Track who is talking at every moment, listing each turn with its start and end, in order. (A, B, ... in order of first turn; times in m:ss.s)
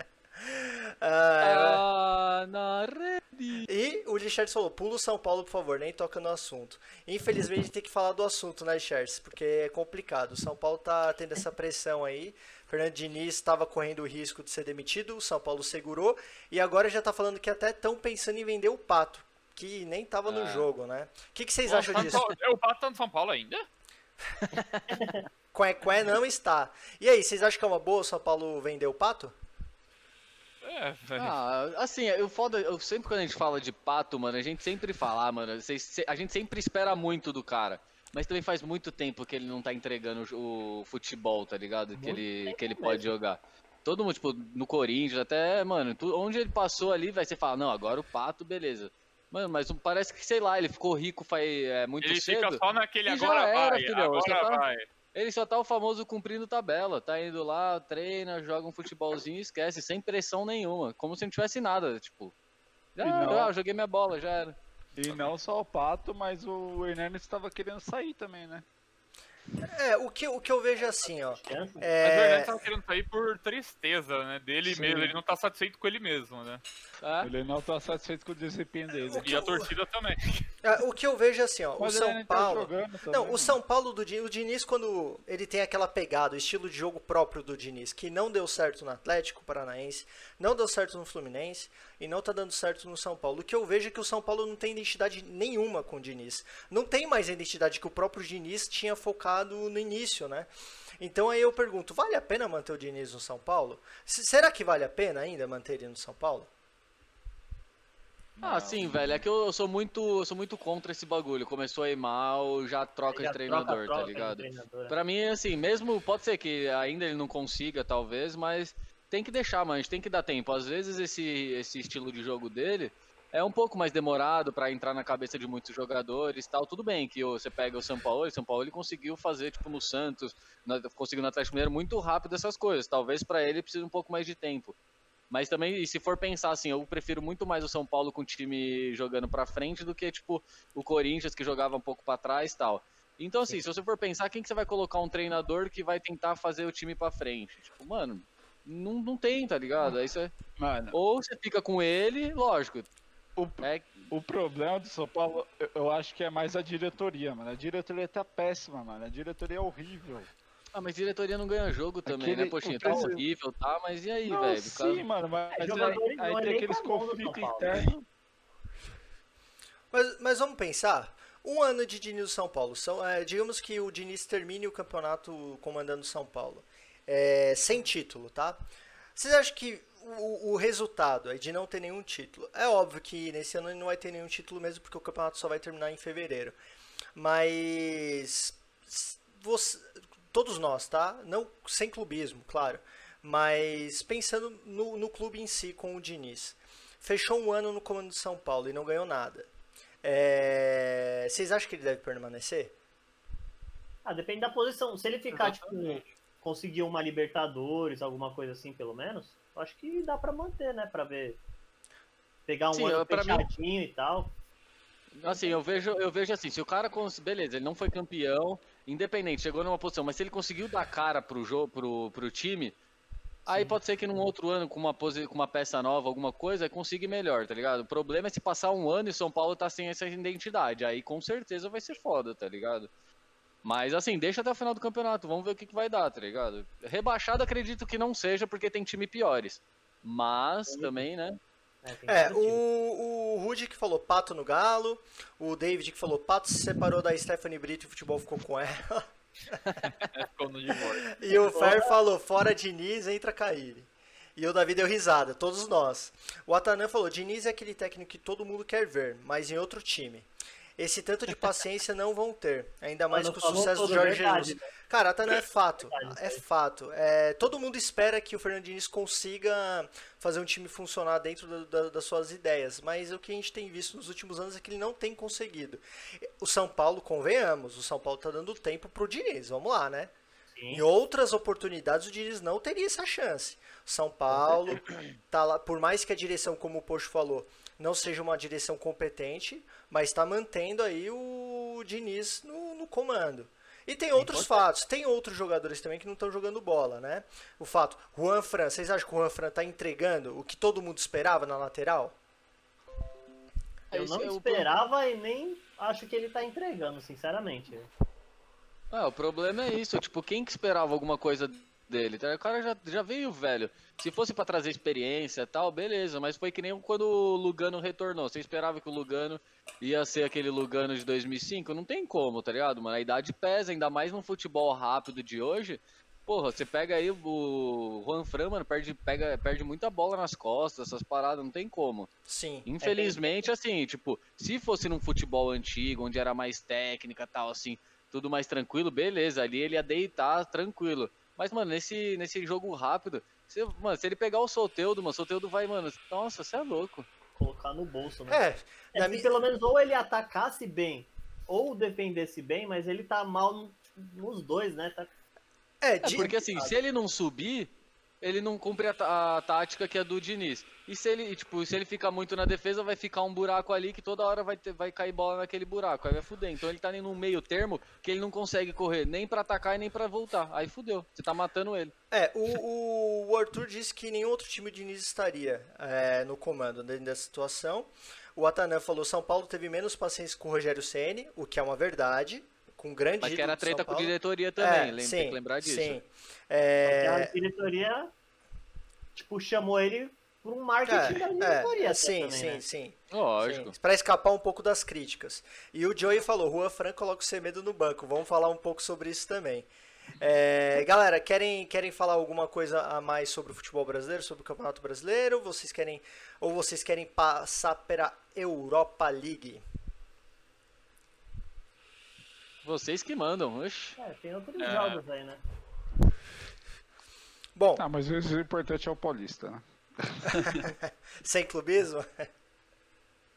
0:00.4-0:01.8 A
0:01.4-0:03.7 B
0:03.6-0:22.2 A
0:20.3-0:20.7 B
0:21.7-0:23.7 C
0:24.5-0:24.9 B
0:24.9-0:25.2 D
0:25.5-0:29.3 A
0:30.6-0:31.4 C
0:31.2-1:02.3 B
0:42.0-0:43.0 D
0:52.0-0:54.9 C
1:03.0-1:04.6 B
1:03.0-1:03.5 E
1:05.0-1:08.6 E
1:09.6-1:12.6 A
1:10.9-1:11.9 D
1:12.0-1:16.6 C
1:14.7-1:15.2 E
1:17.0-1:17.3 B
1:17.2-1:19.3 E
1:19.0-1:19.7 A
1:19.2-1:20.4 C
1:20.6-1:46.5 A
1:21.8-1:23.6 E
1:48.4-1:49.2 E
1:48.4-2:14.8 B
1:53.1-1:55.0 D
2:15.3-2:30.3 B
2:30.6-2:31.0 E
2:30.9-2:32.9 B
2:33.4-2:40.3 E
2:33.6-2:34.1 B
2:40.7-2:45.0 B
2:42.1-2:43.2 E
2:44.2-2:48.0 E
2:45.5-2:47.9 D
2:49.9-2:58.6 A
2:59.2-3:06.6 A
3:07.2-3:19.5 A
3:20.0-3:22.7 A
3:24.0-3:31.4 D
3:25.4-3:26.1 C
3:32.5-3:34.4 D
3:32.7-3:33.5 B
3:35.2-3:42.8 B
3:35.3-3:35.6 D
3:43.5-3:52.9 B
3:43.5-3:43.8 D
3:53.6-4:01.4 B
4:01.8-4:02.6 D
4:02.1-4:09.6 A
4:10.0-4:11.2 C
4:11.1-4:40.1 A
4:11.5-4:11.9 D
4:23.1-4:24.7 D
4:25.8-4:26.4 D
4:40.6-4:40.8 D
4:40.7-5:02.2 A
4:54.2-4:54.4 B
5:03.9-5:04.7 B
5:03.9-5:07.9 D
5:08.9-5:32.1 B
5:32.3-5:32.7 A
5:32.7-5:47.1 B
5:32.8-5:33.4 D
5:47.4-5:48.4 D
5:48.3-5:49.3 A
5:48.9-5:55.1 D
5:55.8-5:56.4 A
5:56.0-6:11.9 B
5:56.1-5:56.8 D
6:12.1-6:27.3 A
6:23.2-6:26.0 B
6:26.8-6:28.1 D
6:29.2-6:32.6 D
6:30.8-6:39.7 A
6:33.1-6:33.8 B
6:40.2-6:49.6 A
6:52.6-6:54.0 B
6:54.0-6:55.4 D
6:54.6-6:55.0 C
6:57.6-6:57.8 A
6:57.8-7:00.7 E
7:00.3-7:02.3 A